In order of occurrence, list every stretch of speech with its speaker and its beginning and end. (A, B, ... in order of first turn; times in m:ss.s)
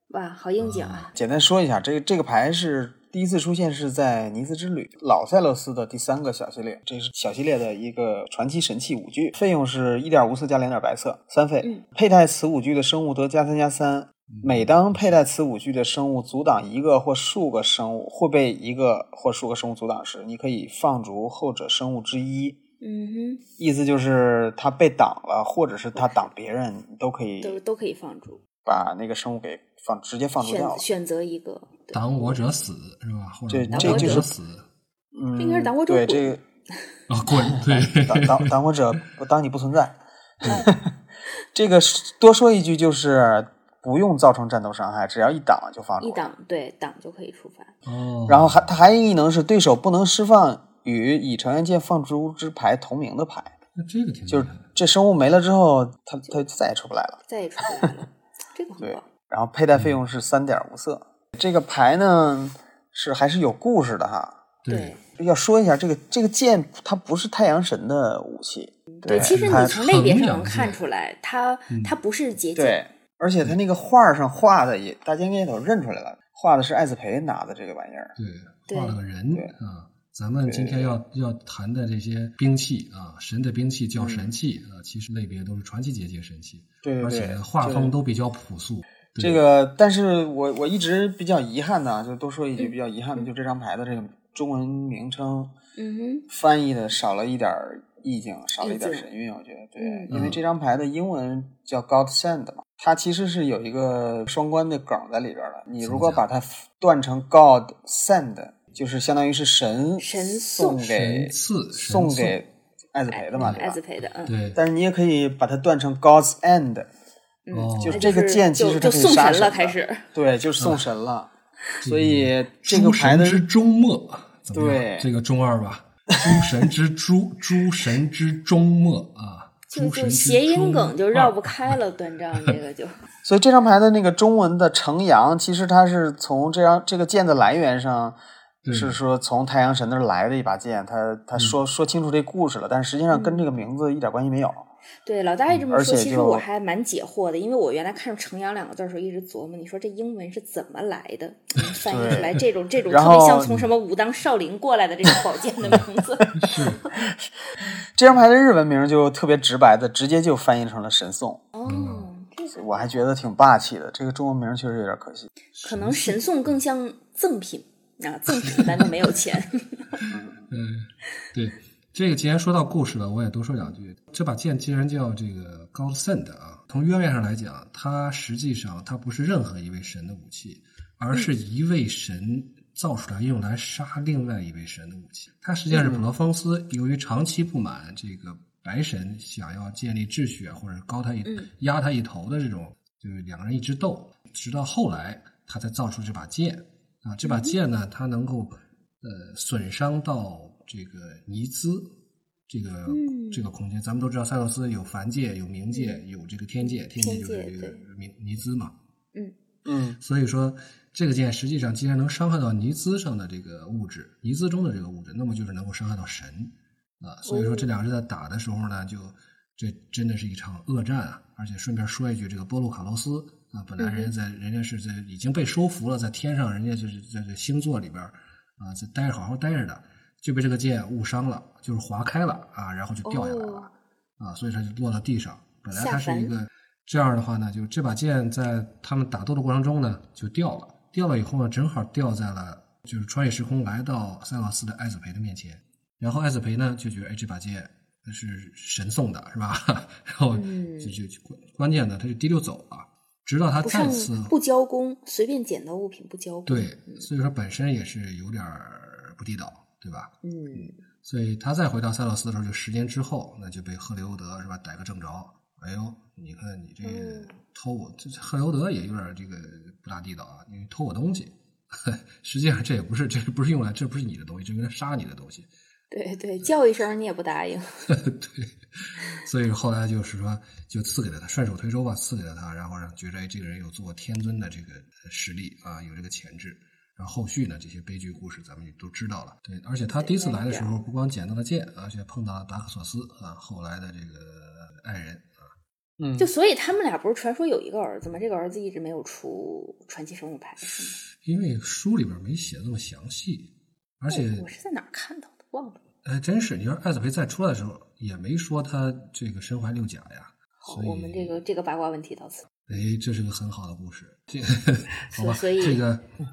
0:00.1-0:01.2 A
0:00.6-0:01.1 B
0:01.2-0:22.6 C
0:14.3-0:15.2 B
0:22.8-0:23.4 A
0:23.6-0:27.6 C
0:26.0-0:26.2 A
0:27.4-0:28.9 A
0:28.6-0:30.9 C
0:30.4-0:32.4 A
0:31.9-0:34.7 B
0:33.5-0:34.3 C
0:33.7-0:34.3 A
0:35.1-0:36.4 C
0:35.4-0:36.4 A
0:37.1-0:38.5 B
0:37.3-0:40.9 C
0:41.5-0:46.3 C
0:46.0-0:47.7 A
0:47.8-0:48.7 B
0:48.3-0:53.5 C
0:53.8-0:54.6 B
0:54.3-0:57.2 C
0:57.3-0:59.1 A
0:58.8-1:04.4 C
1:04.6-1:05.0 B
1:04.7-1:05.0 A
1:05.2-1:09.8 C
1:09.0-1:12.8 A
1:09.1-1:10.8 B
1:11.7-1:12.0 B
1:12.6-1:18.2 C
1:18.2-1:29.4 B
1:18.7-1:19.0 A
1:20.4-1:21.0 C
1:24.0-1:24.3 C
1:26.8-1:28.0 C
1:29.2-1:35.5 C
1:32.6-1:33.3 A
1:35.8-1:36.2 A
1:36.3-1:53.8 C
1:38.6-1:39.0 A
1:39.8-1:40.1 A
1:40.1-1:40.4 B
1:45.8-1:46.2 B
1:50.0-1:50.8 A
1:50.8-1:52.4 B
1:53.1-1:54.3 A
1:54.2-1:54.6 B
1:54.5-1:56.9 C
1:57.5-2:00.1 A
1:57.5-1:58.1 B
1:57.8-2:01.3 C
2:00.6-2:00.8 B
2:01.8-2:11.8 B
2:01.8-2:03.4 C
2:04.5-2:05.1 C
2:09.7-2:13.0 A
2:13.2-2:18.2 C
2:18.6-2:19.0 B
2:18.7-2:24.6 C
2:23.1-2:23.4 A
2:25.0-2:36.9 A
2:25.7-2:26.5 C
2:31.8-2:33.6 C
2:35.6-2:36.8 B
2:37.6-2:41.4 C
2:41.6-2:43.0 A
2:41.7-2:42.1 B
2:42.5-2:45.3 C
2:45.6-2:46.5 B
2:45.6-2:50.0 A
2:48.4-2:48.9 B
2:50.0-3:21.9 B
2:50.1-2:50.5 C
3:05.8-3:06.1 C
3:11.2-3:11.5 A
3:17.2-3:17.6 A
3:22.5-3:28.7 B
3:22.9-3:23.5 A
3:25.7-3:26.0 A
3:26.6-3:27.8 A
3:29.7-3:30.0 C
3:30.0-4:14.3 B
3:37.3-3:37.7 A
3:43.8-3:44.1 A
3:53.0-3:53.7 A
3:55.7-3:56.3 A
4:10.3-4:11.0 A
4:13.6-4:17.1 A
4:16.5-4:35.5 B
4:20.2-4:20.8 A
4:26.8-4:27.4 A
4:35.9-4:37.9 A
4:38.0-4:55.5 B
4:49.9-4:50.8 A
4:56.0-4:56.3 C
4:56.2-5:01.0 A
5:01.1-5:04.5 B
5:04.1-5:05.8 A
5:06.0-5:11.4 B
5:10.6-5:12.5 A
5:12.7-5:16.0 B
5:15.1-5:15.8 A